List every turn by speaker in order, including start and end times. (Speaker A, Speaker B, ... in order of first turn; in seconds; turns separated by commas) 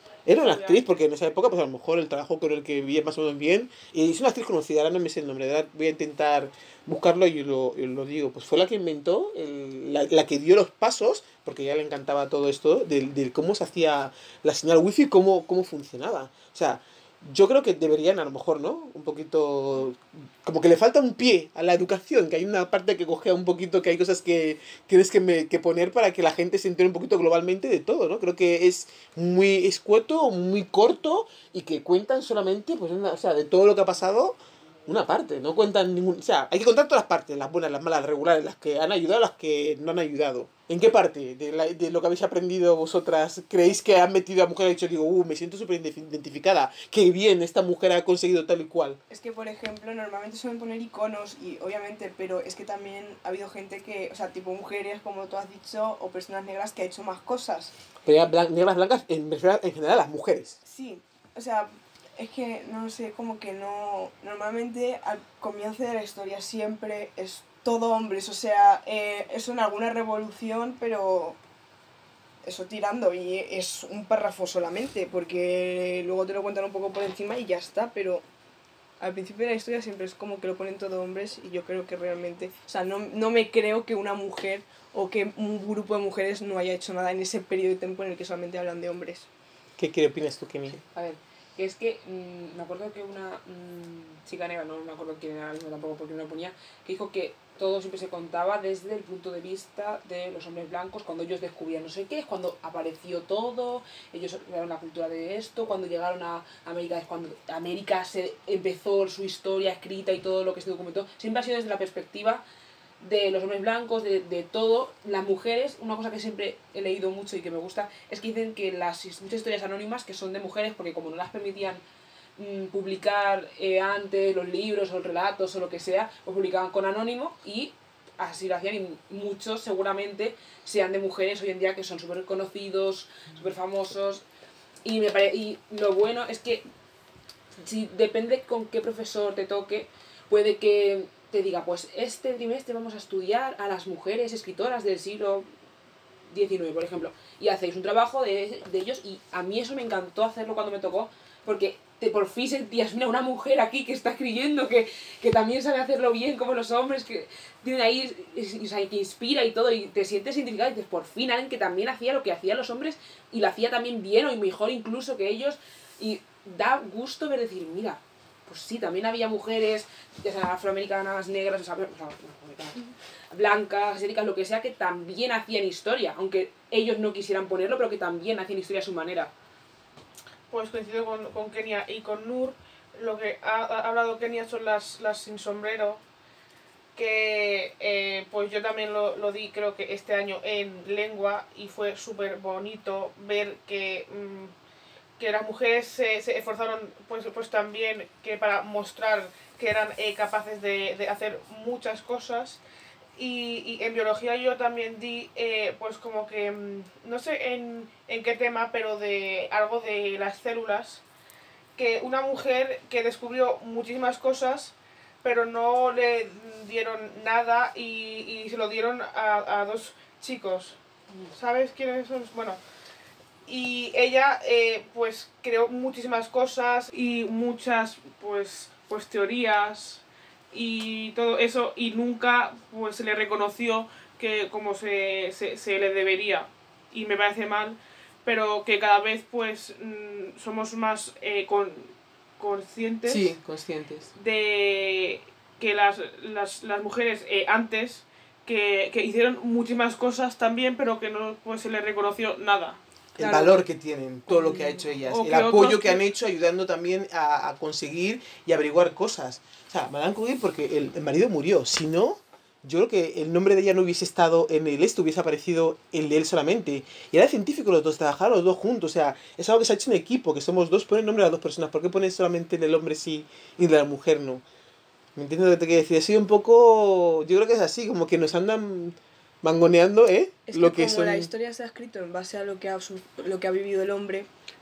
Speaker A: 0.3-49.0, Speaker B: 0.3-1.0, Speaker C: 49.1-57.7, Speaker A: 58.0-60.6, Speaker C: 60.6-71.4, Speaker C: 72.4-78.2, Speaker C: 79.0-89.3, Speaker A: 89.8-90.8, Speaker D: 90.8-112.4, Speaker D: 113.0-121.8, Speaker D: 122.4-134.2, Speaker D: 134.8-136.7, Speaker D: 137.6-145.5, Speaker D: 146.3-179.3, Speaker B: 180.5-186.0, Speaker B: 186.9-194.5, Speaker B: 195.2-202.6, Speaker B: 203.2-211.0, Speaker B: 211.8-220.8, Speaker B: 221.3-222.6, Speaker B: 223.5-243.4, Speaker A: 243.1-244.1, Speaker B: 244.2-252.8, Speaker C: 253.2-253.6, Speaker A: 253.2-274.4, Speaker C: 254.3-254.6, Speaker B: 255.0-256.0, Speaker A: 275.2-281.3, Speaker C: 280.5-284.3